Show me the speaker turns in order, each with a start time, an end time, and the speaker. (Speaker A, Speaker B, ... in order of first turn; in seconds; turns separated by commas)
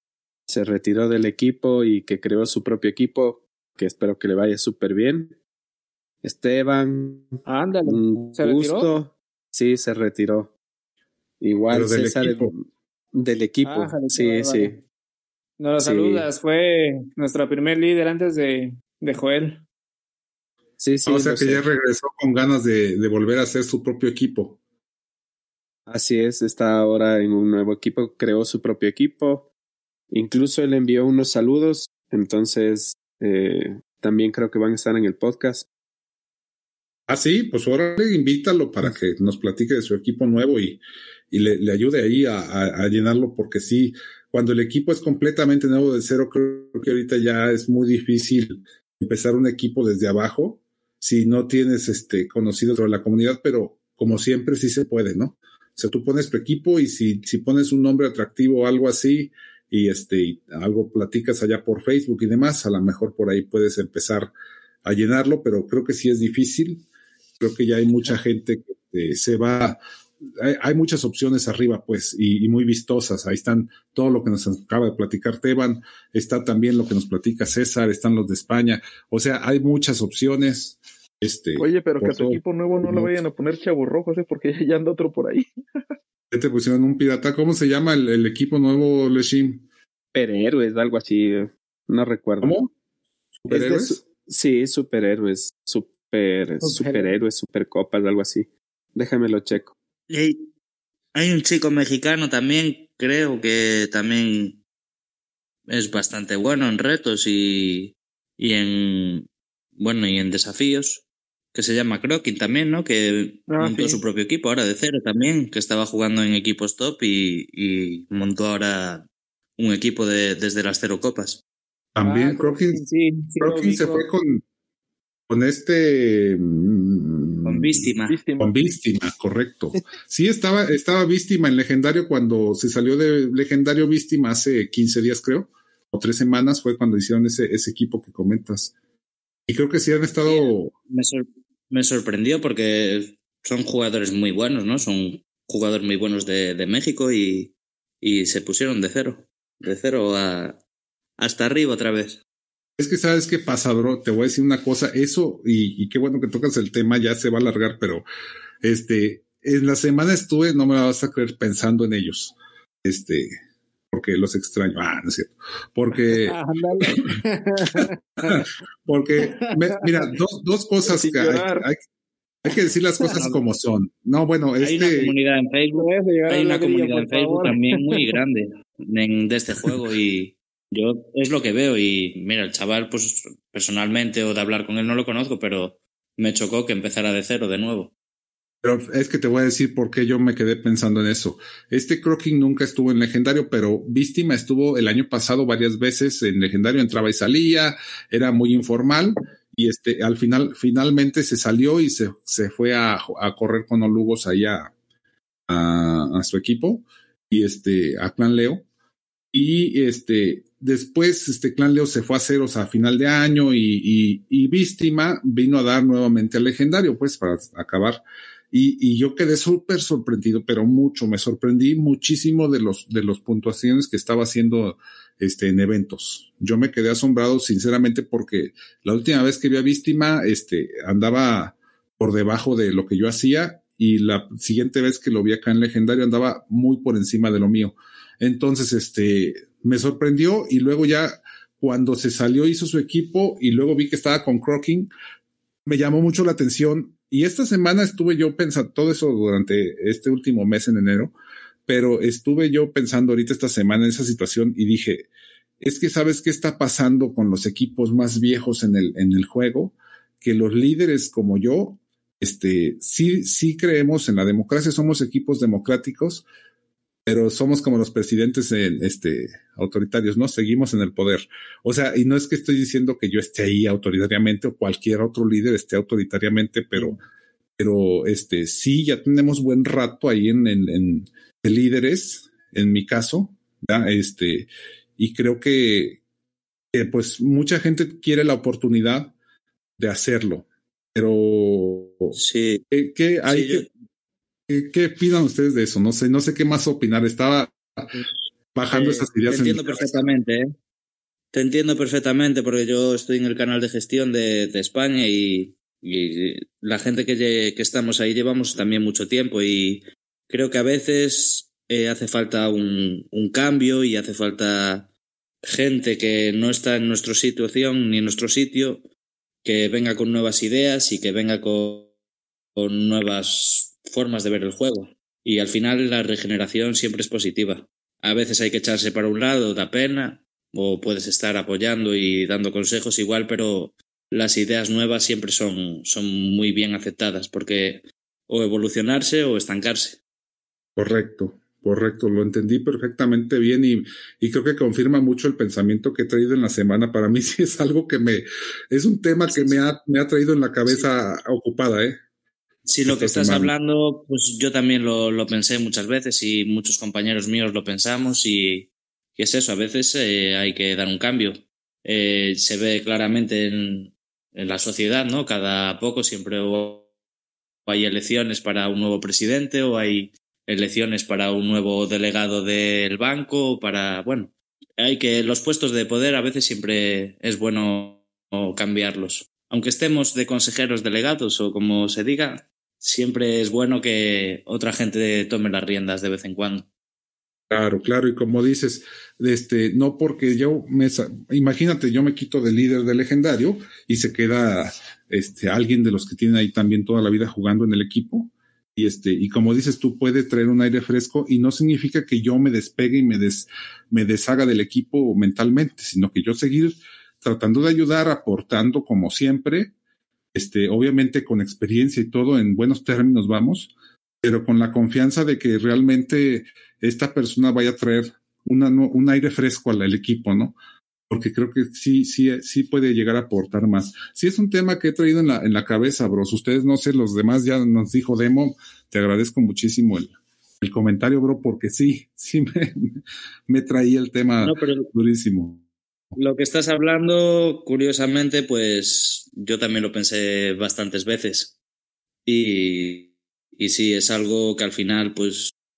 Speaker A: 0.5-5.3, Speaker A: 6.2-10.5, Speaker B: 7.4-8.9, Speaker A: 11.4-14.8, Speaker C: 11.7-12.5, Speaker B: 13.6-14.7, Speaker B: 15.6-19.6, Speaker A: 15.8-16.3, Speaker A: 20.8-21.6, Speaker C: 21.1-24.6, Speaker A: 25.9-29.5, Speaker A: 30.1-35.7, Speaker C: 37.1-64.3, Speaker C: 64.8-66.8, Speaker C: 67.4-69.8, Speaker C: 70.4-83.1, Speaker D: 81.5-85.5, Speaker C: 86.3-89.6, Speaker A: 90.1-92.6, Speaker C: 92.4-92.7, Speaker C: 93.4-94.0, Speaker A: 93.5-99.7, Speaker B: 96.6-97.1, Speaker E: 100.1-100.5, Speaker E: 101.1-104.6, Speaker E: 105.7-121.4, Speaker D: 113.5-114.0, Speaker C: 121.9-122.8, Speaker B: 122.0-124.1, Speaker C: 123.4-124.4, Speaker C: 125.3-127.9, Speaker E: 127.4-128.2, Speaker D: 128.1-128.6, Speaker C: 128.4-138.7, Speaker C: 139.5-140.7, Speaker E: 140.2-150.6, Speaker E: 151.2-152.2, Speaker C: 152.8-158.0, Speaker C: 158.6-163.3, Speaker C: 163.9-166.4, Speaker B: 166.1-168.4, Speaker C: 167.8-171.8, Speaker B: 169.2-170.1, Speaker D: 170.9-171.7, Speaker C: 172.4-175.1, Speaker E: 173.2-173.4, Speaker E: 174.6-187.9, Speaker B: 175.7-178.2, Speaker C: 188.6-204.7, Speaker C: 205.5-208.7, Speaker C: 209.3-244.9, Speaker C: 245.7-251.1, Speaker C: 251.7-255.1, Speaker C: 255.6-266.2, Speaker C: 267.1-277.0, Speaker C: 277.6-286.0, Speaker C: 286.7-289.1, Speaker C: 289.8-292.1, Speaker E: 292.1-292.6, Speaker C: 292.7-293.7, Speaker E: 293.2-293.7, Speaker C: 294.5-297.9, Speaker C: 298.5-300.1, Speaker E: 298.7-300.5, Speaker E: 301.3-314.9, Speaker E: 315.4-318.8, Speaker E: 319.4-321.9, Speaker E: 322.6-340.0, Speaker C: 340.8-352.0, Speaker E: 349.3-349.6, Speaker E: 352.6-366.9, Speaker C: 352.9-353.5, Speaker E: 367.7-386.7, Speaker C: 387.5-409.7, Speaker C: 410.3-420.6, Speaker C: 421.1-435.6, Speaker E: 434.4-434.9, Speaker E: 436.1-441.5, Speaker E: 442.2-445.5